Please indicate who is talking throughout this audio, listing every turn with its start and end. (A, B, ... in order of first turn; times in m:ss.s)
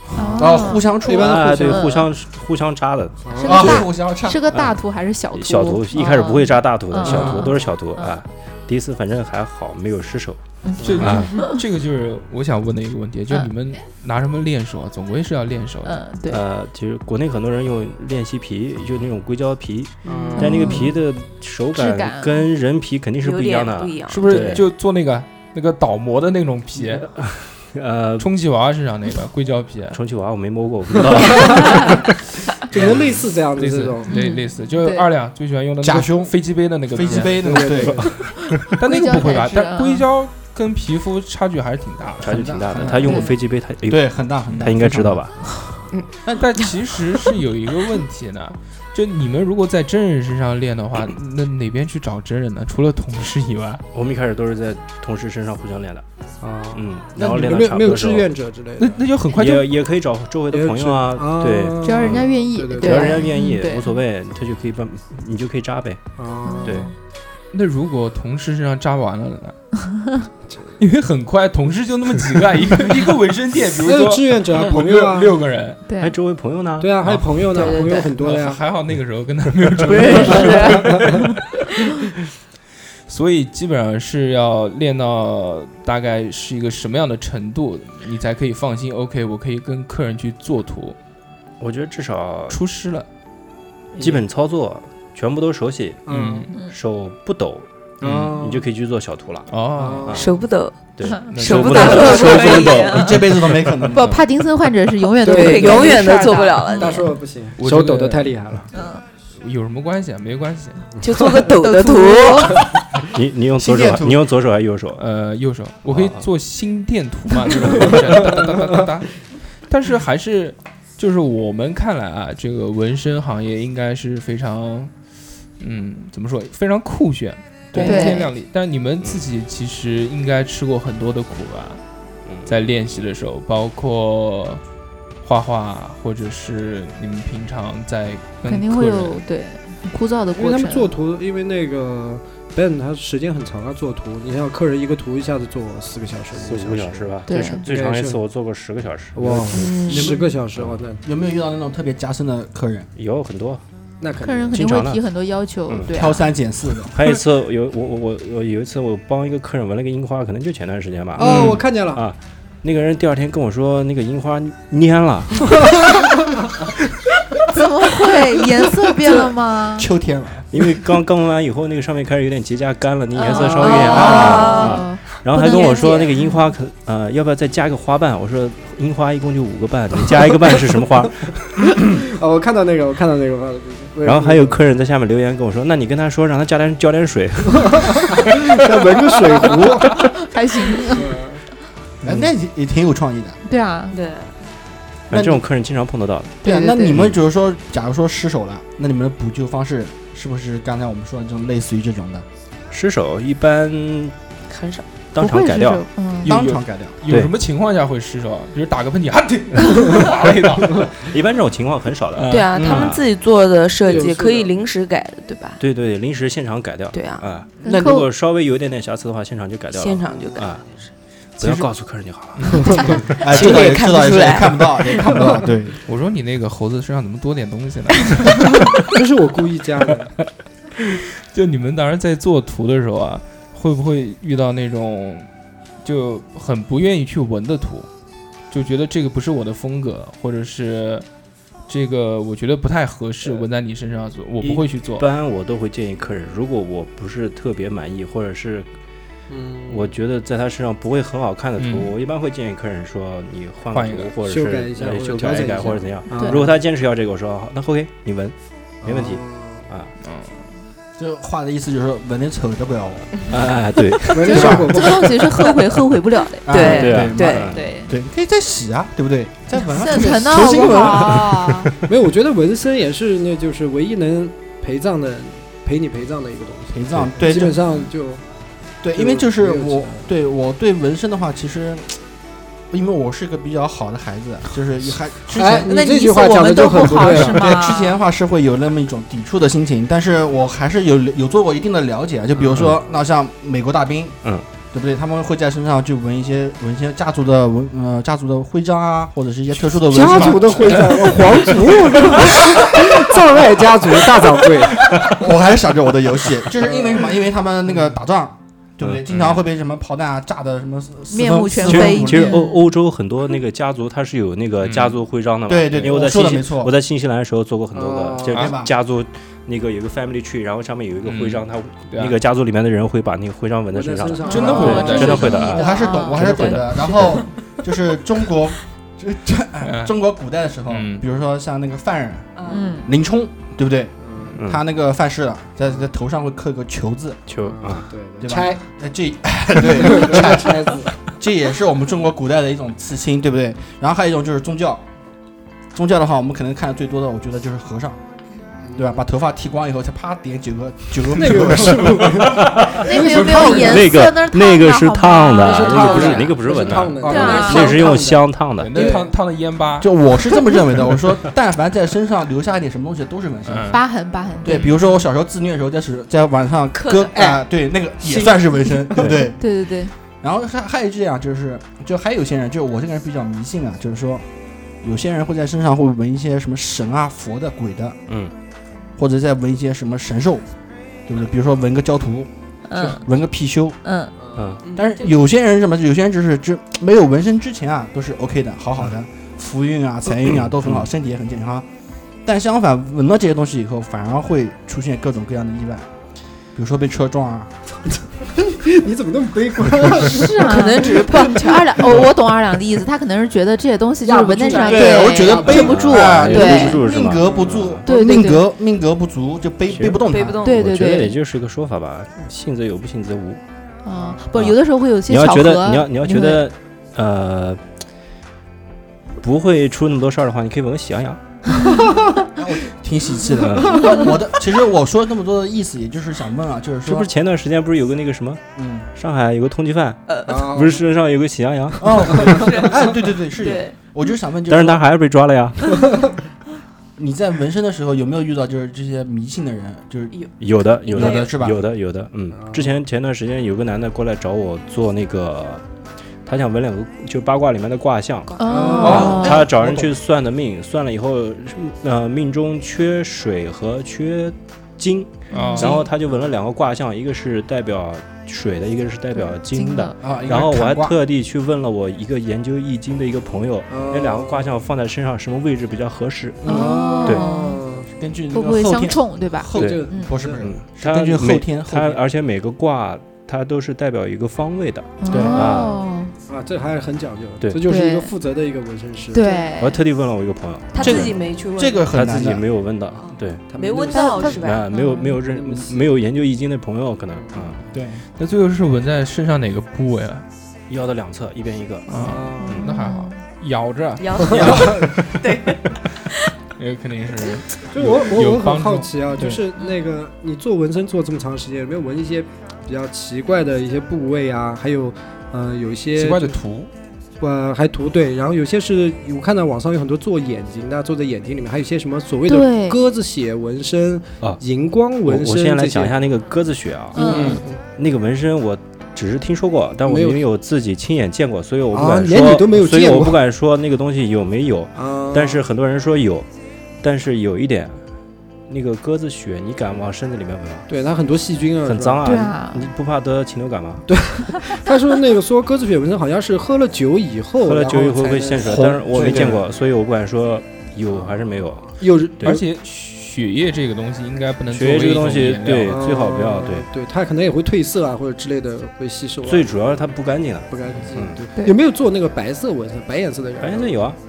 0:00.2-0:01.0 A
0:00.4-0:01.7 B
0:01.0-0:01.9 C
0:01.1-0:03.8 D
0:01.6-0:02.1 A
0:03.2-0:03.7 C
0:03.4-0:08.2 A
0:03.4-0:04.4 B
0:04.5-0:04.8 D
0:05.3-0:10.4 D
0:07.1-0:07.3 B
0:10.6-0:11.5 A
0:10.8-0:16.0 E
0:10.8-0:11.1 C
0:11.0-0:11.3 D
0:15.8-0:16.4 A
0:16.3-0:24.6 D
0:20.0-0:20.8 C
0:20.3-0:20.9 A
0:21.8-0:22.5 A
0:23.2-0:24.6 F
0:24.1-0:27.1 E
0:27.1-0:28.3 D
0:28.2-0:30.0 E
0:29.9-0:32.1 D
0:31.0-0:34.2 C
0:32.6-0:33.2 D
0:33.6-0:37.4 E
0:34.1-0:35.1 A
0:35.8-0:36.3 B
0:36.9-0:38.0 B
0:37.0-0:38.2 C
0:37.8-0:38.5 D
0:38.8-0:42.9 E
0:38.8-0:40.0 A
0:42.2-0:43.3 B
0:42.2-0:44.1 D
0:43.0-0:43.3 A
0:43.9-0:45.2 B
0:44.5-0:45.0 E
0:44.6-0:45.3 D
0:46.3-0:53.8 E
0:53.9-0:56.0 D
0:56.4-0:59.0 C
0:56.7-0:58.3 D
0:58.8-0:59.7 E
0:59.3-1:06.1 D
1:00.5-1:03.4 C
1:01.8-1:04.0 A
1:06.2-1:06.9 C
1:06.4-1:06.9 A
1:06.6-1:06.9 D
1:07.5-1:09.6 E
1:10.8-1:15.8 E
1:13.7-1:15.4 C
1:15.9-1:16.2 A
1:16.0-1:16.9 D
1:16.8-1:18.6 C
1:17.0-1:21.3 E
1:17.5-1:18.1 F
1:19.8-1:21.0 F
1:20.3-1:21.1 C
1:23.1-1:31.0 E
1:31.6-1:32.6 D
1:32.5-1:33.1 E
1:34.0-1:36.1 D
1:36.0-1:36.5 C
1:36.1-1:36.5 E
1:36.6-1:37.7 D
1:38.0-1:38.7 C
1:38.0-1:38.3 E
1:38.2-1:39.5 D
1:39.5-1:40.2 E
1:39.8-1:40.2 C
1:40.1-1:43.3 F
1:41.0-1:43.9 D
1:41.3-1:42.2 E
1:42.1-1:44.2 B
1:43.9-1:47.1 A
1:45.2-1:48.7 C
1:45.2-1:47.2 F
1:46.0-1:46.5 E
1:47.6-1:48.4 E
1:48.7-1:49.0 A
1:49.4-1:50.9 E
1:51.0-1:52.7 F
1:51.0-1:51.5 C
1:51.6-1:52.6 A
1:53.1-1:55.0 D
1:53.6-1:54.2 B
1:55.0-2:04.9 E
1:55.9-1:56.2 D
1:57.6-1:58.8 C
2:05.6-2:11.8 E
2:07.7-2:08.2 D
2:07.8-2:08.3 A
2:07.8-2:08.0 C
2:12.2-2:12.6 D
2:12.4-2:14.6 E
2:15.2-2:19.2 E
2:18.4-2:20.9 A
2:20.3-2:27.1 C
2:26.4-2:29.7 D
2:27.3-2:27.6 A
2:27.6-2:28.2 C
2:29.1-2:31.0 C
2:29.5-2:30.2 F
2:30.5-2:30.8 D
2:31.0-2:32.9 B
2:33.0-2:33.6 D
2:34.0-2:34.7 C
2:34.2-2:36.3 A
2:34.5-2:35.0 D
2:35.9-2:37.2 B
2:36.9-2:45.5 D
2:41.2-2:42.0 C
2:41.2-2:41.5 B
2:47.5-2:49.9 A
2:49.8-2:50.7 B
2:50.5-3:01.8 D
2:53.2-2:56.4 A
2:53.2-2:54.9 F
2:54.2-2:54.5 B
2:55.6-2:56.1 F
3:01.8-3:04.6 C
3:04.0-3:09.0 D
3:07.5-3:10.1 C
3:10.3-3:11.2 A
3:10.8-3:11.4 C
3:12.0-3:13.4 B
3:12.0-3:12.3 D
3:13.4-3:14.0 A
3:13.9-3:14.3 F
3:15.1-3:16.4 D
3:15.1-3:15.4 B
3:16.4-3:17.0 A
3:16.4-3:22.2 B
3:16.9-3:17.2 D
3:22.7-3:24.1 D
3:24.5-3:24.9 F
3:25.1-3:25.8 D
3:25.2-3:26.4 A
3:26.2-3:31.0 E
3:26.2-3:27.0 B
3:31.0-3:33.0 D
3:32.1-3:32.5 E
3:32.3-3:35.6 F
3:32.5-3:32.9 B
3:33.9-3:34.5 C
3:35.6-3:40.6 D
3:36.9-3:37.3 F
3:37.6-3:38.1 A
3:39.7-3:40.9 F
3:41.4-3:43.7 D
3:41.4-3:41.6 B
3:42.5-3:43.2 C
3:42.7-3:43.0 A
3:43.2-3:45.8 B
3:43.2-3:45.2 F
3:45.9-3:48.7 E
3:48.7-3:50.1 C
3:51.2-3:55.3 E
3:55.8-3:57.9 E
3:58.5-4:01.0 E
4:01.7-4:05.0 E
4:04.4-4:08.7 D
4:09.3-4:09.9 C
4:09.7-4:19.9 D
4:11.6-4:11.9 E
4:13.7-4:14.1 E
4:14.2-4:16.6 C
4:16.1-4:16.4 A
4:18.8-4:19.7 C
4:20.0-4:20.4 E
4:21.0-4:23.1 B
4:23.3-4:24.6 D
4:24.1-4:25.2 C
4:24.2-4:26.7 A
4:24.3-4:24.8 B
4:25.0-4:25.4 F
4:26.4-4:31.3 B
4:26.5-4:27.6 F
4:26.5-4:27.7 D
4:27.4-4:27.9 A
4:29.6-4:31.7 A
4:30.3-4:31.0 C
4:30.3-4:31.5 D
4:31.9-4:38.2 C
4:36.7-4:37.6 B
4:38.8-4:42.0 B
4:38.9-4:40.1 C
4:42.7-4:45.8 B
4:45.3-4:47.5 C
4:45.6-4:48.0 A
4:47.0-4:54.2 B
4:52.4-4:52.8 C
4:54.7-5:01.5 B
4:59.9-5:05.1 C
5:01.3-5:01.5 D
5:02.2-5:02.7 B
5:05.0-5:12.4 B
5:06.6-5:07.1 C
5:08.8-5:09.4 D
5:11.1-5:12.6 A
5:11.6-5:25.6 D
5:14.6-5:15.0 E
5:15.5-5:16.7 B
5:17.7-5:18.5 C
5:18.4-5:18.7 B
5:21.0-5:22.1 E
5:23.7-5:25.4 C
5:24.2-5:26.8 A
5:24.3-5:25.4 E
5:25.1-5:26.6 F
5:25.3-5:37.2 B
5:26.5-5:27.2 C
5:29.6-5:29.9 E
5:30.7-5:31.0 E
5:32.4-5:32.9 F
5:32.5-5:32.9 A
5:34.0-5:34.4 C
5:34.4-5:34.6 D
5:37.3-5:37.9 D
5:37.4-5:38.6 C
5:38.2-5:44.8 B
5:39.6-5:41.0 C
5:45.7-5:48.0 B
5:48.6-5:49.0 C
5:48.8-5:52.4 B
5:51.1-5:53.9 C
5:52.0-5:58.7 D
5:52.8-5:56.4 A
5:55.4-5:59.1 C
5:57.0-5:57.9 A
5:57.0-5:58.0 F
5:58.6-5:59.9 E
5:59.8-6:03.8 B
6:03.4-6:03.8 E
6:03.7-6:04.8 A
6:04.4-6:09.4 B
6:06.7-6:07.4 F
6:08.0-6:09.2 C
6:09.2-6:09.9 A
6:10.2-6:14.2 B
6:14.8-6:18.0 B
6:18.1-6:18.3 D
6:19.0-6:20.4 B
6:21.1-6:23.8 B
6:22.7-6:23.0 A
6:23.8-6:24.1 A
6:24.2-6:24.9 C
6:24.3-6:24.6 D
6:24.8-6:31.7 B
6:30.3-6:30.8 D
6:32.2-6:35.9 B
6:36.5-6:37.6 B
6:38.4-6:41.4 C
6:40.1-6:46.9 A
6:40.5-6:41.8 F
6:44.0-6:45.7 C
6:44.6-6:50.4 B
6:45.4-6:47.8 D
6:46.2-6:46.6 C
6:47.8-6:48.5 A
6:49.7-6:53.4 D
6:50.1-6:50.7 F
6:50.4-6:51.2 A
6:53.8-6:56.4 A
6:54.3-6:57.6 D
6:59.2-7:01.2 D
7:02.3-7:07.1 B
7:03.4-7:03.8 D
7:06.8-7:08.4 D
7:08.6-7:08.9 B
7:08.9-7:12.4 D
7:10.1-7:10.5 F
7:10.3-7:10.8 C
7:11.8-7:14.8 B
7:12.3-7:13.8 F
7:14.5-7:15.8 D
7:15.8-7:16.1 C
7:17.0-7:20.1 B
7:20.4-7:25.6 D
7:20.8-7:21.3 F
7:20.9-7:21.6 B
7:22.4-7:22.7 C
7:26.2-7:47.2 D
7:28.3-7:28.9 F
7:28.4-7:29.4 A
7:28.4-7:29.3 C
7:28.8-7:29.9 B
7:35.3-7:35.7 E
7:35.3-7:35.8 A
7:39.2-7:40.0 A
7:40.0-7:41.0 B
7:43.7-7:44.5 C
7:46.4-7:47.9 C
7:46.5-7:47.6 A
7:48.0-7:52.0 B
7:48.3-7:50.1 A
7:49.5-7:50.4 C
7:49.6-7:49.8 D
7:50.4-7:55.8 D
7:55.0-7:56.1 A
7:56.3-7:59.3 C
7:57.6-7:58.1 A
7:59.1-7:59.8 A
7:59.2-7:59.5 F
7:59.6-8:01.1 D
8:00.7-8:02.0 F
8:00.8-8:01.1 A
8:00.8-8:02.4 B
8:01.9-8:03.4 D
8:02.9-8:04.7 F
8:03.5-8:04.4 C
8:03.9-8:05.2 A
8:04.2-8:07.6 D
8:05.1-8:05.9 C
8:07.1-8:07.6 C
8:07.7-8:08.0 B
8:08.2-8:10.2 E
8:10.7-8:11.9 D
8:11.9-8:12.4 E
8:11.9-8:12.9 C
8:12.4-8:13.2 A
8:12.4-8:13.0 D
8:13.2-8:14.7 E
8:14.0-8:15.6 F
8:14.3-8:15.0 C
8:16.6-8:19.4 E
8:17.7-8:26.4 C
8:26.0-8:26.7 E
8:27.2-8:36.0 C
8:32.2-8:32.8 A
8:35.0-8:46.3 D
8:36.9-8:37.4 A
8:37.0-8:37.6 C
8:37.1-8:37.4 B
8:39.8-8:40.2 C
8:41.7-8:43.2 C
8:44.8-8:45.4 C
8:46.8-8:47.8 D
8:48.5-8:50.7 D
8:50.7-8:52.0 C
8:51.6-8:53.9 D
8:52.0-8:52.7 A
8:53.9-8:59.4 C
8:57.4-9:02.4 D
8:58.4-8:59.4 B
9:00.9-9:02.4 C
9:02.2-9:05.8 E
9:04.5-9:06.7 D
9:05.7-9:09.9 C
9:09.2-9:11.2 D
9:10.5-9:13.8 C
9:13.4-9:14.0 D